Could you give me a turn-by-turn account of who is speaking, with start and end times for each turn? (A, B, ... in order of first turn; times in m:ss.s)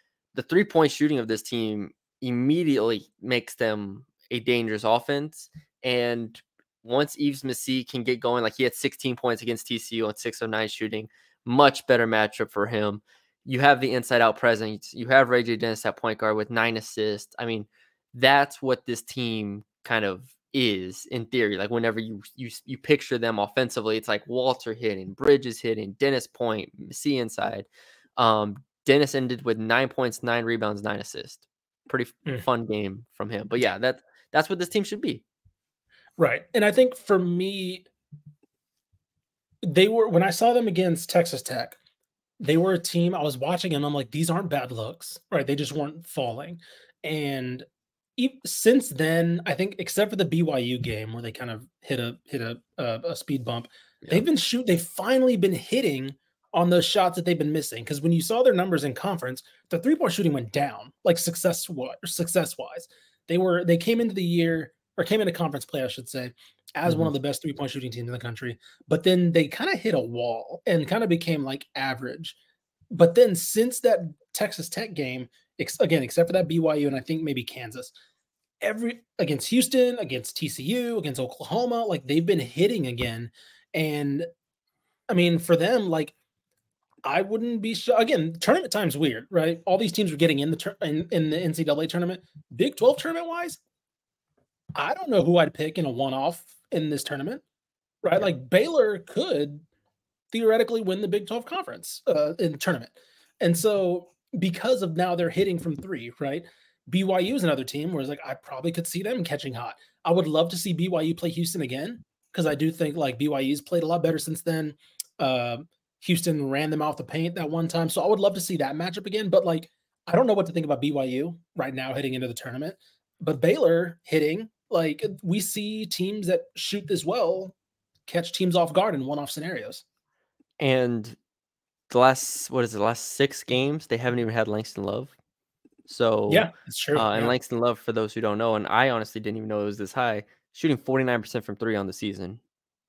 0:00.4-0:35.2 A
0:36.2-0:37.9 B
0:39.6-0:41.8 B
0:42.4-0:47.6 B
0:48.2-1:12.4 B
1:06.9-1:07.1 A
1:12.9-1:17.9 B
1:18.6-1:24.3 B
1:25.1-1:26.2 B
1:27.0-1:33.6 B
1:34.8-1:37.4 B
1:38.0-1:39.6 B
1:40.3-2:07.5 B
2:08.1-2:09.8 B
2:10.6-2:11.2 A
2:11.9-2:15.1 A
2:15.9-2:22.4 A
2:16.3-2:17.3 B